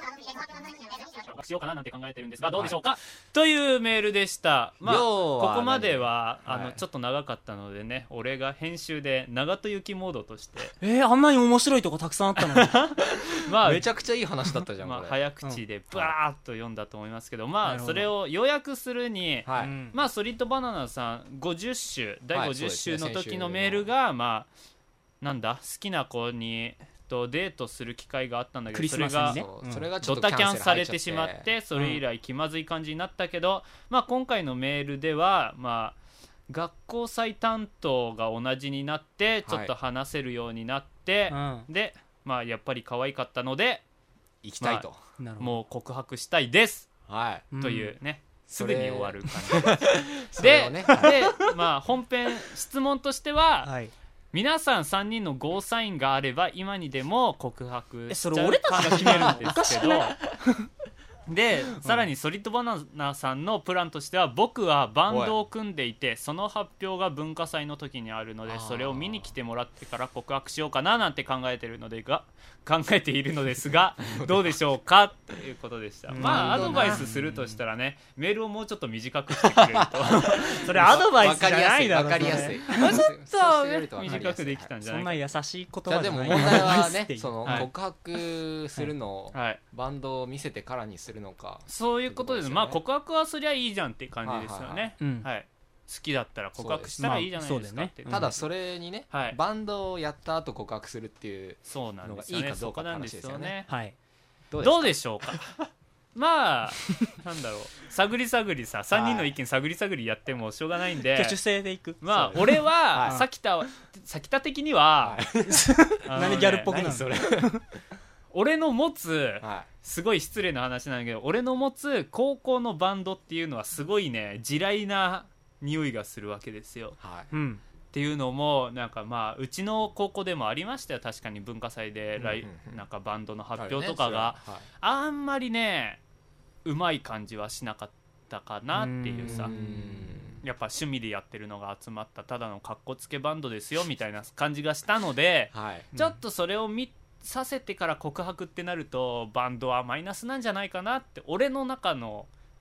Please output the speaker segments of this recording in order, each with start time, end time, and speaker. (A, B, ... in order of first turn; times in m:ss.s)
0:01.2-0:10.8 A
0:04.8-0:06.8 B
0:10.8-0:12.9 C
0:12.4-0:13.8 A
0:13.6-0:15.2 B
0:14.8-0:24.5 A
0:17.6-0:18.1 C
0:19.4-0:19.7 B
0:19.6-0:20.0 C
0:22.3-0:23.9 B
0:25.2-0:29.4 A
0:28.7-0:29.9 C
0:29.2-0:31.5 B
0:30.0-0:36.0 A
0:31.7-0:32.0 C
0:36.5-0:43.8 A
0:39.4-0:39.7 B
0:41.3-0:41.7 C
0:44.4-0:45.0 B
0:44.6-0:44.8 A
0:45.2-0:45.6 C
0:45.4-0:46.9 A
0:47.1-0:47.5 B
0:47.5-0:47.9 C
0:47.6-0:53.7 A
0:48.5-0:51.2 B
0:53.6-0:53.9 C
0:54.3-1:00.2 A
0:58.1-1:00.7 C
0:59.0-0:59.9 B
1:01.3-1:20.7 A
1:01.8-1:02.1 C
1:05.1-1:05.4 B
1:08.5-1:09.3 B
1:14.1-1:14.6 B
1:16.1-1:17.5 C
1:16.2-1:17.1 B
1:19.4-1:24.7 B
1:20.6-1:23.0 C
1:22.7-1:25.2 A
1:24.0-1:24.3 C
1:24.8-1:27.7 C
1:25.9-1:32.8 B
1:29.3-1:29.6 A
1:31.7-1:38.4 A
1:34.2-1:34.9 B
1:35.0-1:35.3 C
1:36.6-1:37.0 B
1:37.0-1:38.3 C
1:38.1-1:43.6 B
1:39.1-1:39.4 A
1:41.6-1:43.7 A
1:43.7-1:44.0 C
1:44.5-1:45.4 B
1:44.6-1:45.6 A
1:46.1-1:51.4 A
1:48.9-1:49.3 B
1:51.1-1:53.2 C
1:52.0-1:55.2 A
1:52.1-1:53.2 B
1:55.0-1:57.6 B
1:55.5-1:57.6 C
1:56.0-1:56.8 A
1:58.3-2:07.0 A
1:59.4-1:59.7 B
2:07.0-2:07.3 B
2:07.3-2:07.6 C
2:07.9-2:16.0 A
2:12.2-2:12.8 B
2:13.6-2:14.6 B
2:16.6-2:19.5 A
2:18.7-2:19.7 C
2:19.2-2:20.4 B
2:20.4-2:32.3 A
2:25.5-2:25.9 B